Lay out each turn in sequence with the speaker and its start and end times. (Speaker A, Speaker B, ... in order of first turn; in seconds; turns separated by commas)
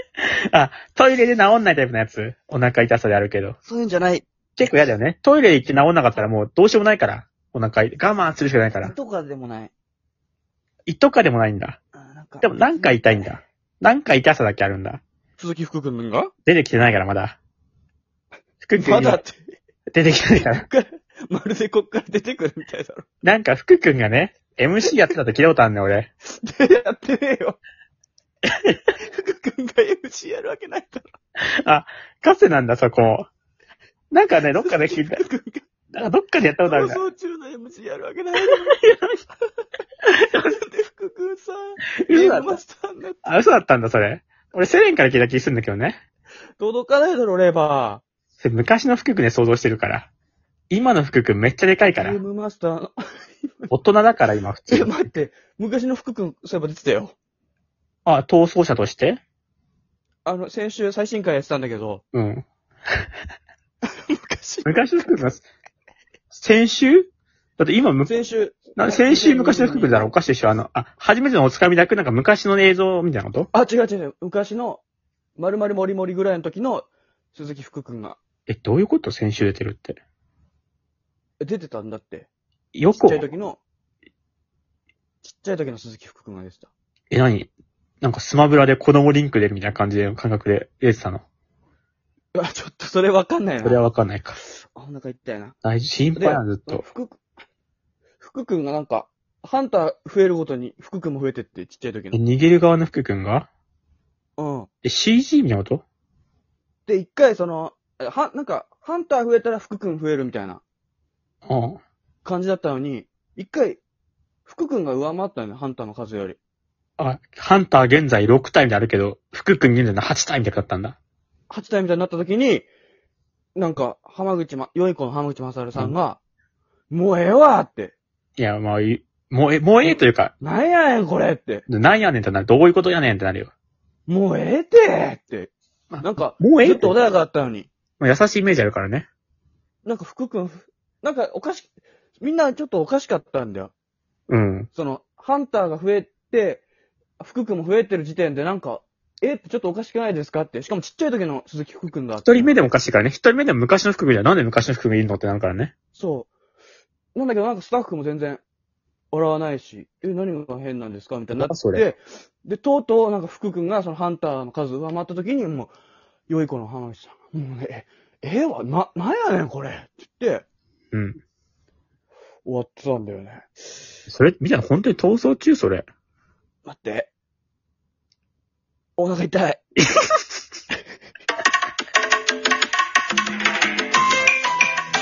Speaker A: 0.5-3.6, Speaker B: 3.6-4.2, Speaker A: 4.6-8.9, Speaker B: 8.8-9.7, Speaker A: 10.8-11.8, Speaker B: 12.0-13.3, Speaker A: 12.4-15.0, Speaker B: 15.4-16.3, Speaker A: 16.5-17.4, Speaker A: 18.6-19.2, Speaker B: 18.8-19.5, Speaker A: 19.9-20.7, Speaker B: 20.5-23.0, Speaker A: 23.2-26.1, Speaker B: 26.3-27.6, Speaker B: 29.0-31.1, Speaker A: 31.6-33.3, Speaker A: 34.1-35.2, Speaker B: 34.5-35.6, Speaker A: 35.9-37.0, Speaker B: 36.6-38.8, Speaker A: 38.4-39.2, Speaker B: 40.3-43.4, Speaker A: 42.1-42.6, Speaker A: 43.2-46.0, Speaker B: 46.6-48.0, Speaker A: 48.4-50.1, Speaker A: 50.7-52.2, Speaker B: 51.9-53.7, Speaker A: 53.7-55.0, Speaker B: 54.7-57.1, Speaker A: 58.1-59.2, Speaker B: 60.2-62.0, Speaker A: 62.1-62.4, Speaker B: 64.1-64.8, Speaker A: 64.7-65.4, Speaker A: 66.3-68.1, Speaker B: 68.1-70.2, Speaker A: 68.8-73.5, Speaker B: 73.5-74.8, Speaker B: 75.4-78.2, Speaker A: 78.5-80.0, Speaker B: 81.4-82.3, Speaker A: 82.8-83.3, Speaker B: 82.9-83.6, Speaker B: 85.2-86.7, Speaker A: 87.1-87.5, Speaker A: 88.0-91.2, Speaker B: 92.3-93.9, Speaker A: 93.6-94.4, Speaker B: 94.8-95.6, Speaker A: 95.6-96.8, Speaker B: 96.2-97.2, Speaker B: 98.2-102.2, Speaker A: 102.1-103.5, Speaker B: 104.4-104.7, Speaker A: 104.8-105.8, Speaker B: 106.9-110.6, Speaker A: 111.5-111.8, Speaker B: 112.2-113.8, Speaker B: 114.5-116.4, Speaker A: 117.0-121.0, Speaker B: 121.5-122.7, Speaker B: 123.6-126.2, Speaker B: 126.9-127.9, Speaker A: 128.4-130.3, Speaker B: 129.8-131.7, Speaker A: 131.7-133.5, Speaker B: 134.1-137.7, Speaker A: 135.9-136.9, Speaker A: 138.0-139.1, Speaker B: 139.8-143.7, Speaker A: 144.3-144.7, Speaker B: 144.7-146.6, Speaker B: 147.2-152.6, Speaker A: 152.2-155.7, Speaker B: 155.9-156.3, Speaker B: 157.1-158.4, Speaker B: 159.1-165.7, Speaker A: 161.3-161.9, Speaker B: 166.3-170.4, Speaker A: 170.9-171.2, Speaker B: 172.4-173.5, Speaker A: 174.1-175.9, Speaker B: 176.6-177.1, Speaker B: 179.0-179.6